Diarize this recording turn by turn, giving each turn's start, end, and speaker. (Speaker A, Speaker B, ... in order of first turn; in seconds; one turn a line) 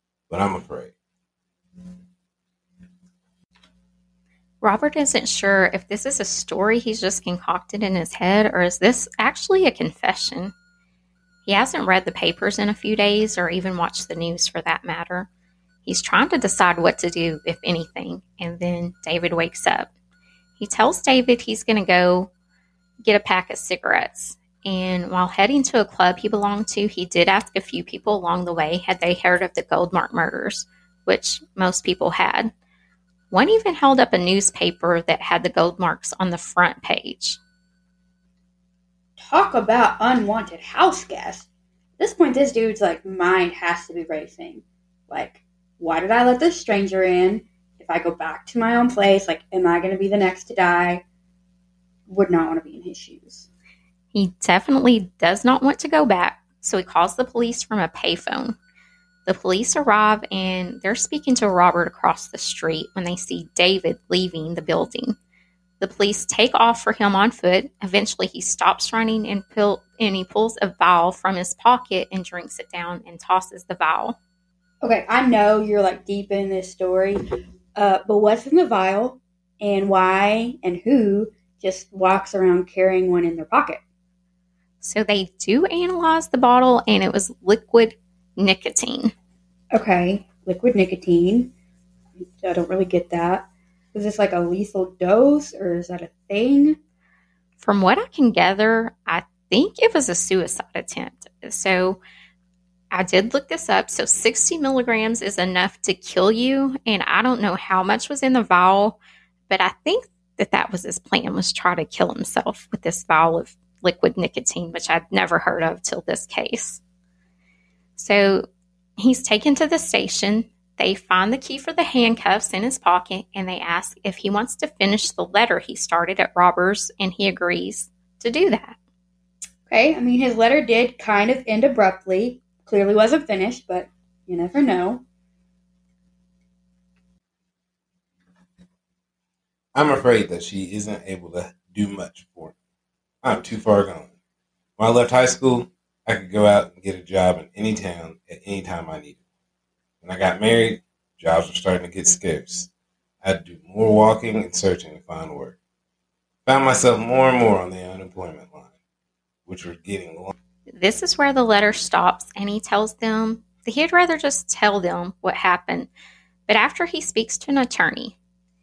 Speaker A: 0.3-0.9
Speaker B: 4.6-10.5
Speaker B: 11.5-15.3
Speaker B: 15.8-19.9
Speaker B: 20.6-22.3
Speaker B: 23.0-32.5
Speaker B: 33.3-37.4
Speaker C: 39.2-41.5
Speaker C: 42.0-51.0
Speaker C: 52.1-53.5
Speaker B: 54.1-58.6
Speaker B: 59.3-65.2
Speaker B: 65.8-74.2
Speaker C: 74.8-83.8
Speaker B: 84.8-89.1
Speaker C: 89.7-91.5
Speaker C: 92.2-96.8
Speaker B: 97.6-102.0
Speaker B: 102.9-109.0
Speaker B: 109.5-116.8
Speaker B: 118.0-118.5
Speaker B: 119.0-128.8
Speaker C: 129.7-135.0
Speaker A: 139.7-142.5
Speaker A: 143.2-144.1
Speaker A: 144.8-149.2
Speaker A: 150.0-152.7
Speaker A: 153.2-155.6
Speaker A: 156.5-158.7
Speaker A: 159.5-160.3
Speaker B: 160.7-165.9
Speaker B: 166.5-168.2